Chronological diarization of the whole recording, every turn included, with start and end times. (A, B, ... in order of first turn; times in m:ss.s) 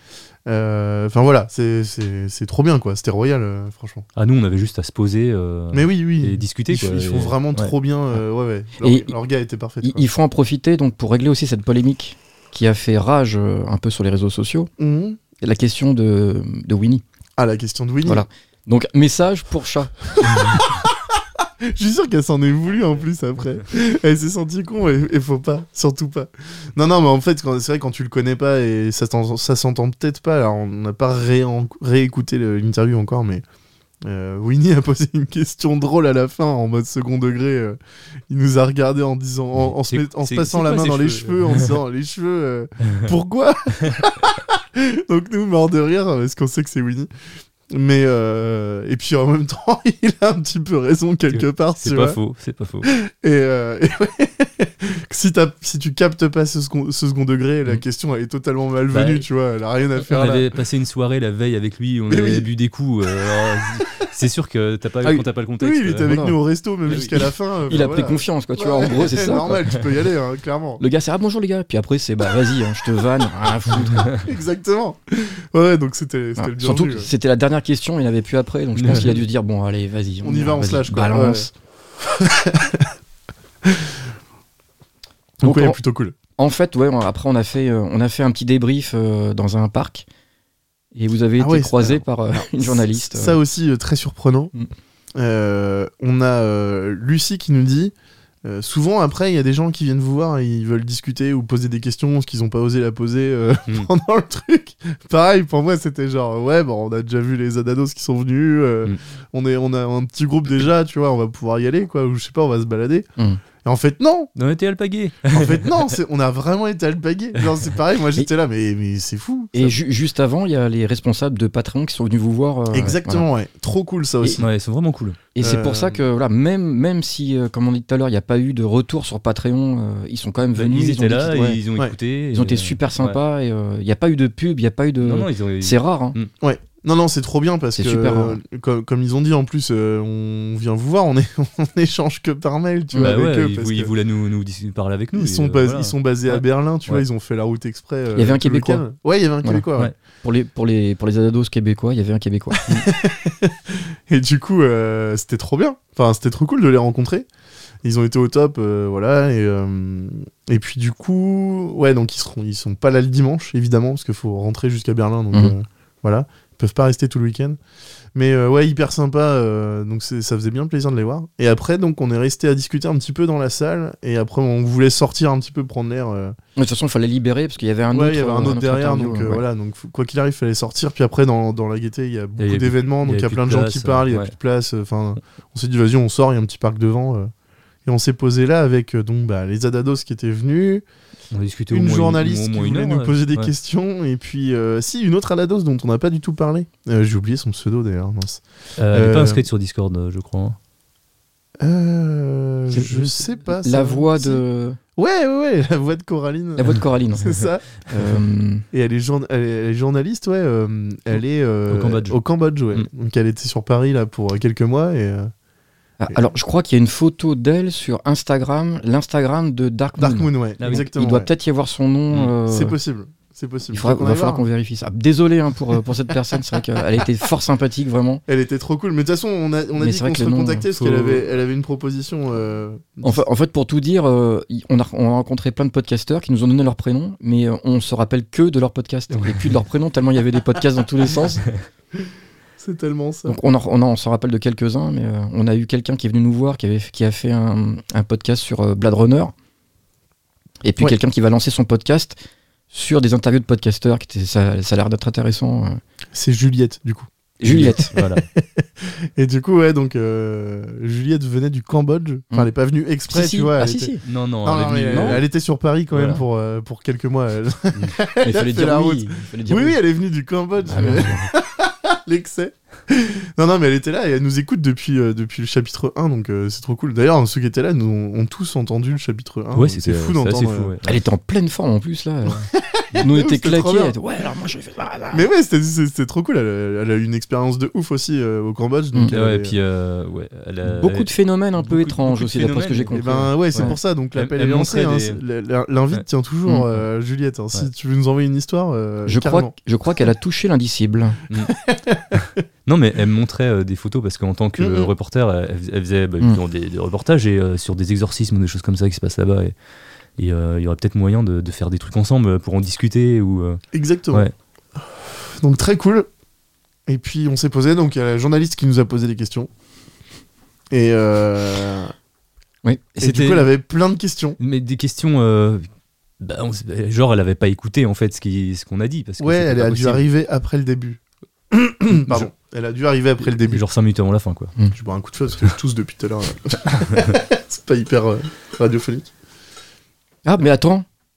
0:00.5-0:04.0 A
0:04.2-0:07.7 B
0:05.7-0:10.0 A
0:08.8-0:09.1 C
0:09.8-0:14.7 C
0:14.8-0:15.2 A
0:15.4-0:17.0 C
0:17.4-0:18.3 A
0:18.1-0:19.9 C
0:20.2-0:20.9 A
0:21.6-0:33.4 A
0:34.0-0:37.8 A
0:38.3-0:47.1 A
0:39.6-0:41.7 B
0:47.7-0:52.2 A
0:51.3-0:52.9 B
0:52.8-1:00.5 A
0:58.9-0:59.3 B
1:00.0-1:06.2 B
1:02.1-1:02.5 A
1:05.6-1:10.8 A
1:06.1-1:06.4 C
1:06.9-1:07.2 B
1:07.7-1:09.5 C
1:10.8-1:14.1 C
1:14.2-1:17.1 A
1:16.4-1:21.5 C
1:18.8-1:19.1 B
1:20.2-1:21.5 A
1:22.1-1:22.9 A
1:23.7-1:24.0 A
1:25.4-1:26.2 A
1:25.4-1:25.8 C
1:26.4-1:30.1 C
1:31.0-1:33.4 C
1:31.4-1:34.5 A
1:35.2-1:53.1 A
1:53.6-1:54.3 A
1:54.4-1:55.8 B
1:55.3-1:59.8 A
1:59.5-2:03.3 C
2:02.7-2:04.4 A
2:04.4-2:05.2 B
2:05.4-2:11.6 C
2:05.4-2:06.0 A
2:10.6-2:13.2 B
2:12.3-2:16.2 C
2:15.0-2:16.3 B
2:16.4-2:23.9 A
2:17.8-2:18.4 C
2:22.9-2:23.2 C
2:23.0-2:27.0 B
2:25.1-2:29.9 A
2:28.2-2:28.8 C
2:30.2-2:32.6 C
2:32.7-2:37.3 A
2:37.8-2:47.6 A
2:48.2-2:56.4 A
2:56.6-2:59.4 C
2:57.9-3:07.3 A
3:02.4-3:04.3 B
3:07.9-3:10.8 A
3:11.3-3:13.5 B
3:11.7-3:19.4 A
3:18.8-3:20.6 B
3:21.6-3:24.4 A
3:22.7-3:24.8 C
3:25.0-3:27.7 A
3:26.6-3:27.3 C
3:27.9-3:28.6 C
3:28.7-3:35.3 A
3:31.7-3:32.2 B
3:36.0-3:42.8 C
3:40.0-3:41.3 A
3:42.5-3:44.4 A
3:43.7-3:48.2 C
3:48.3-3:53.2 A
3:49.8-3:50.7 C
3:50.8-3:51.2 B
3:53.0-4:01.4 C
4:02.6-4:03.4 A
4:03.3-4:09.3 C
4:10.6-4:12.2 C
4:12.7-4:15.8 C
4:16.1-4:17.1 A
4:17.4-4:17.9 C
4:17.4-4:18.2 B
4:18.4-4:40.7 A
4:23.1-4:24.0 C
4:24.0-4:25.2 B
4:24.7-4:25.2 C
4:25.9-4:26.2 B
4:28.2-4:29.8 C
4:30.7-4:31.2 C
4:30.7-4:31.1 B
4:39.5-4:41.0 B
4:40.8-4:42.5 C
4:42.5-4:44.0 A
4:43.0-4:45.3 C
4:45.1-4:49.6 A
4:49.1-4:55.2 B
4:50.6-4:53.8 C
4:52.9-4:59.5 A
4:59.1-5:01.2 C
5:01.4-5:02.2 A
5:02.2-5:09.6 B
5:04.6-5:04.9 A
5:10.2-5:13.6 B
5:13.7-5:14.3 A
5:15.2-5:16.1 A
5:16.9-5:19.5 A
5:20.7-5:21.9 A
5:23.0-5:23.5 B
5:23.0-5:24.4 A
5:24.4-5:25.7 B
5:26.2-5:30.0 B
5:29.2-5:31.0 A
5:31.5-5:33.6 A
5:33.3-5:34.5 B
5:34.7-5:39.1 A
5:40.2-5:40.8 C